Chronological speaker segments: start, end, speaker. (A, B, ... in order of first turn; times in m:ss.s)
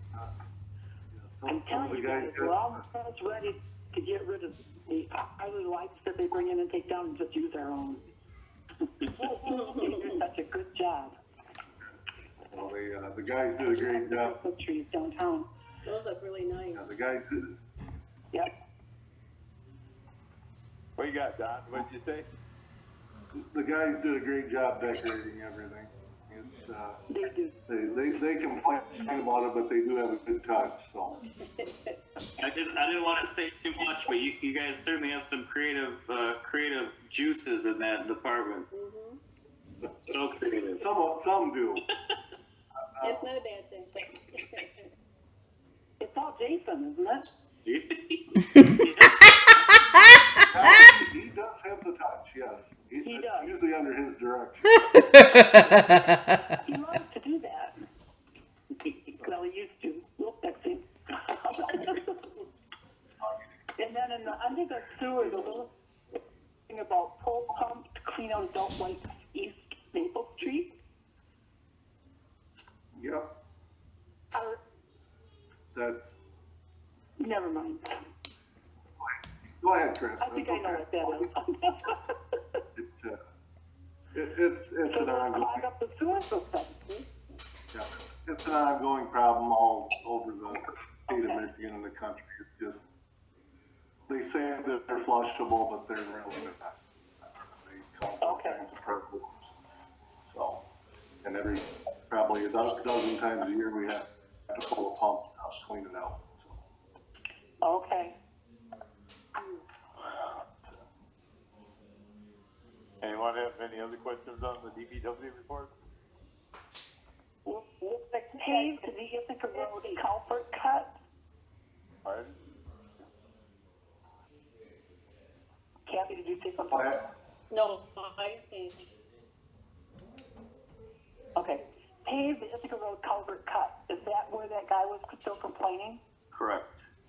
0:01.1-0:02.8 A
0:01.5-0:08.0 B
0:09.1-0:11.1 B
0:09.4-0:10.2 C
0:12.5-0:14.4 A
0:13.6-0:15.5 B
0:15.8-0:16.9 C
0:16.7-0:17.6 A
0:21.0-0:22.3 D
0:23.4-0:27.0 A
0:27.1-0:27.6 B
0:27.7-0:31.2 A
0:31.5-0:31.9 C
0:32.4-0:38.7 E
0:38.7-0:39.2 C
0:40.0-0:40.8 E
0:40.8-0:41.8 A
0:43.0-0:43.3 A
0:43.0-0:44.9 C
0:46.0-0:47.3 B
0:47.6-0:48.9 E
0:50.5-0:54.8 A
0:53.0-0:53.5 B
0:56.6-0:57.8 B
0:59.2-1:02.4 B
1:03.8-1:05.7 B
1:06.7-1:10.7 B
1:12.9-1:13.4 A
1:14.3-1:14.6 B
1:15.7-1:16.2 A
1:17.2-1:18.0 B
1:19.0-1:21.3 A
1:20.2-1:22.4 B
1:22.8-1:23.2 A
1:24.1-1:25.6 A
1:24.9-1:26.8 B
1:27.7-1:32.9 A
1:34.1-1:36.8 A
1:37.6-1:39.6 A
1:38.2-1:38.6 B
1:40.2-1:40.7 A
1:41.2-1:46.6 A
1:47.6-1:48.2 B
1:53.0-1:55.7 D
1:58.1-1:58.7 C
1:58.4-2:00.9 B
1:59.7-2:00.0 C
2:02.0-2:02.4 D
2:05.9-2:07.0 B
2:06.7-2:07.0 A
2:07.5-2:08.8 C
2:11.4-2:16.0 B
2:16.3-2:16.9 E